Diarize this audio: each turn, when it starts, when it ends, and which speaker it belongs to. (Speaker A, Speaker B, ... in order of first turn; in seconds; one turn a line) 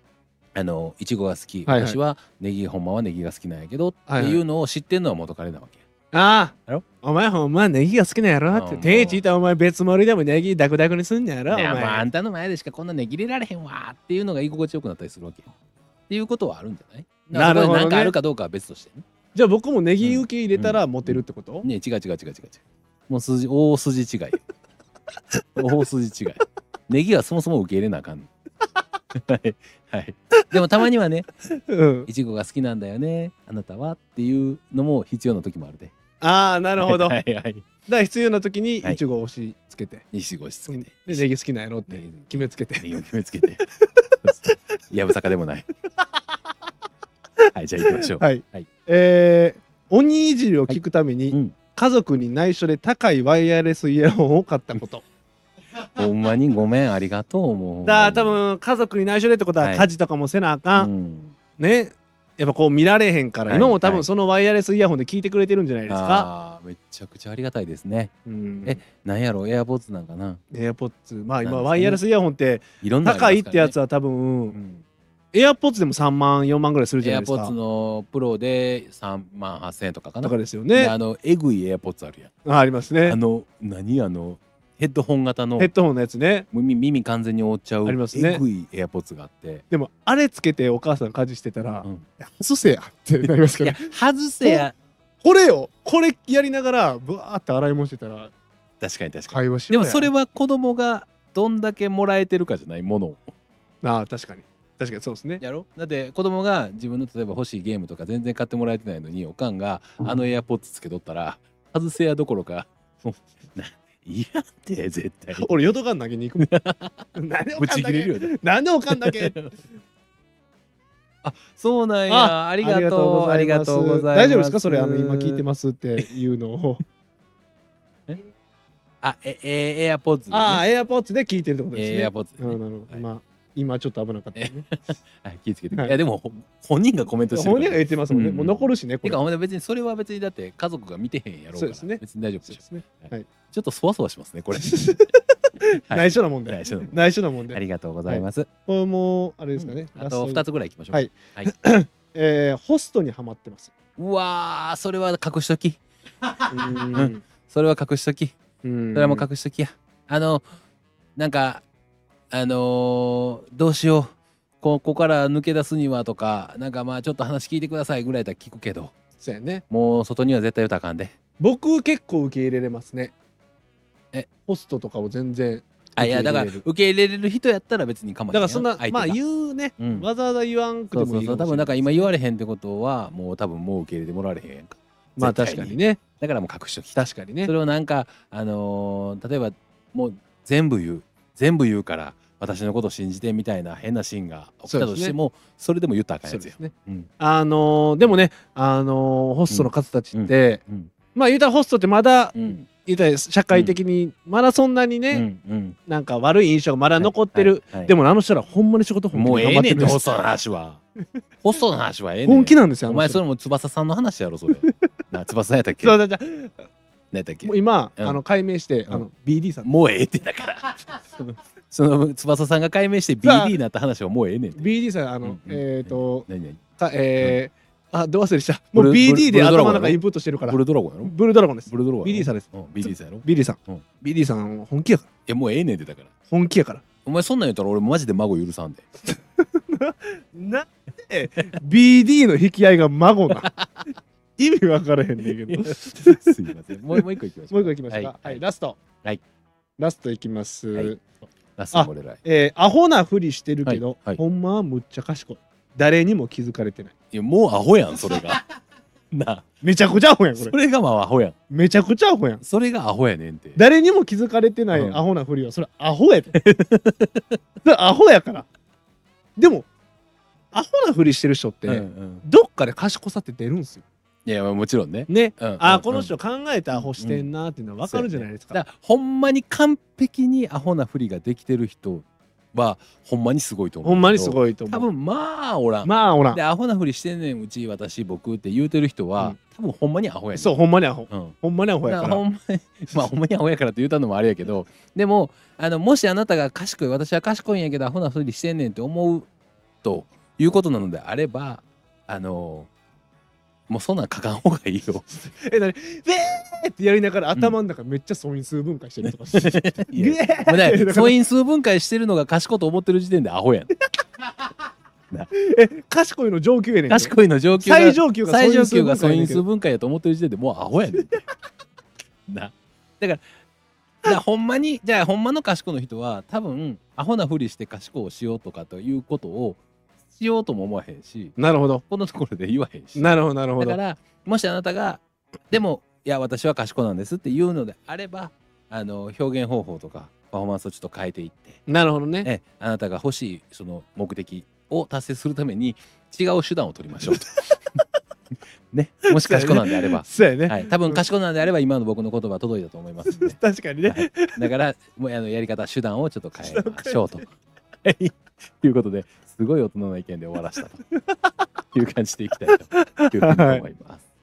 Speaker A: 0.6-5.8
Speaker B: 1.7-2.0
Speaker B: 4.1-4.4
Speaker B: 6.1-12.1
Speaker A: 8.5-9.2
Speaker A: 11.5-15.5
Speaker A: 16.1-19.0
Speaker B: 17.3-18.1
Speaker B: 19.3-21.7
Speaker A: 20.0-24.4
Speaker A: 25.6-28.3
Speaker A: 29.1-31.3
Speaker B: 31.5-32.1
Speaker A: 32.0-35.9
Speaker B: 36.2-37.2
Speaker A: 36.8-37.7
Speaker B: 37.9-40.0
Speaker A: 40.1-41.2
Speaker B: 40.7-42.9
Speaker A: 41.9-43.7
Speaker A: 44.2-45.7
Speaker B: 47.4-55.0
Speaker A: 47.5-48.7
Speaker A: 56.0-58.4
Speaker B: 57.8-60.9
Speaker A: 59.6-59.9
Speaker A: 60.8-61.4
Speaker B: 61.6-66.3
Speaker A: 63.5-64.1
Speaker A: 65.9-68.1
Speaker B: 68.3-68.8
Speaker A: 68.6-70.4
Speaker B: 70.5-74.5
Speaker A: 71.4-72.0
Speaker A: 72.8-73.7
Speaker A: 74.5-74.8
Speaker B: 75.3-77.5
Speaker A: 77.0-82.3
Speaker B: 80.2-80.9
Speaker B: 82.5-83.2
Speaker A: 83.0-85.7
Speaker B: 85.6-86.5
Speaker A: 86.5-89.6
Speaker B: 87.9-88.4
Speaker B: 89.7-93.8
Speaker A: 93.2-94.8
Speaker B: 95.2-98.3
Speaker A: 98.8-103.3
Speaker B: 99.3-100.1
Speaker B: 103.8-105.4
Speaker A: 105.4-115.7
Speaker B: 115.3-116.5
Speaker A: 116.4-118.3
Speaker B: 117.1-119.4
Speaker A: 118.9-119.5
Speaker A: 121.2-125.4
Speaker B: 122.1-126.8
Speaker A: 129.0-130.6
Speaker B: 130.3-134.6
Speaker A: 131.7-133.1
Speaker A: 134.4-144.8
Speaker B: 137.3-139.2
Speaker B: 141.6-143.3
Speaker B: 144.6-153.7
Speaker A: 145.9-147.0
Speaker A: 147.5-148.5
Speaker A: 149.6-151.5
Speaker A: 154.0-155.8
Speaker B: 156.5-157.2
Speaker A: 156.9-158.4
Speaker B: 158.6-159.3
Speaker A: 158.9-160.4
Speaker A: 161.2-161.6
Speaker A: 162.3-168.9
Speaker B: 169.2-169.6
Speaker A: 169.7-171.2
Speaker B: 171.4-173.1
Speaker B: 174.5-176.6
Speaker A: 176.0-179.2
Speaker B: 178.3-182.1
Speaker A: 179.8-180.1
Speaker A: 180.9-197.1
Speaker B: 185.2-186.0
Speaker B: 186.9-187.5
Speaker B: 194.7-195.2
Speaker B: 196.3-200.6
Speaker A: 199.5-200.9
Speaker B: 201.1-205.3
Speaker A: 202.3-202.7
Speaker A: 203.5-203.8
Speaker A: 205.1-205.8
Speaker B: 205.9-210.0
Speaker A: 207.0-207.9
Speaker A: 209.1-210.8
Speaker A: 211.4-216.0
Speaker B: 212.2-213.2
Speaker B: 215.8-216.6
Speaker A: 217.1-218.2
Speaker B: 217.4-219.7
Speaker A: 219.6-224.7
Speaker B: 223.2-223.6
Speaker B: 224.6-226.3
Speaker A: 225.2-226.6
Speaker B: 226.8-235.1
Speaker A: 228.7-231.1
Speaker A: 231.7-233.8
Speaker A: 235.3-236.1
Speaker B: 236.3-236.8
Speaker A: 237.0-238.9
Speaker B: 239.4-243.5
Speaker A: 243.4-243.9
Speaker B: 244.4-246.4
Speaker A: 245.5-248.4
Speaker B: 246.9-248.8
Speaker B: 249.8-251.0
Speaker A: 251.6-252.2
Speaker B: 251.7-256.9
Speaker A: 253.7-254.2
Speaker A: 257.1-258.4
Speaker A: 259.1-259.5
Speaker B: 259.6-260.6
Speaker A: 260.4-261.3
Speaker B: 261.5-262.4
Speaker A: 262.4-263.6
Speaker B: 263.6-266.3
Speaker A: 264.7-265.0
Speaker A: 266.3-267.4
Speaker B: 267.6-268.5
Speaker B: 269.4-269.7
Speaker B: 270.5-273.8
Speaker A: 271.7-272.2
Speaker A: 274.3-276.1
Speaker B: 275.1-278.6
Speaker A: 276.7-277.3
Speaker A: 277.9-290.6
Speaker B: 283.8-284.9
Speaker B: 285.8-286.4
Speaker B: 290.3-292.2
Speaker A: 291.1-299.3
Speaker A: 299.8-302.7
Speaker A: 303.7-305.1
Speaker B: 305.2-311.1
Speaker A: 309.0-313.7
Speaker B: 315.3-319.4
Speaker A: 316.9-321.2
Speaker A: 322.3-323.2
Speaker A: 324.0-329.6
Speaker A: 330.1-331.4
Speaker B: 331.4-331.8
Speaker A: 331.9-341.6
Speaker B: 332.9-333.8
Speaker B: 341.7-342.3
Speaker A: 342.2-347.3
Speaker A: 348.7-357.3
Speaker B: 349.1-351.1
Speaker B: 353.1-354.3
Speaker B: 356.4-357.0
Speaker A: 357.8-360.8
Speaker B: 360.9-361.3
Speaker A: 361.7-364.0
Speaker B: 362.7-363.6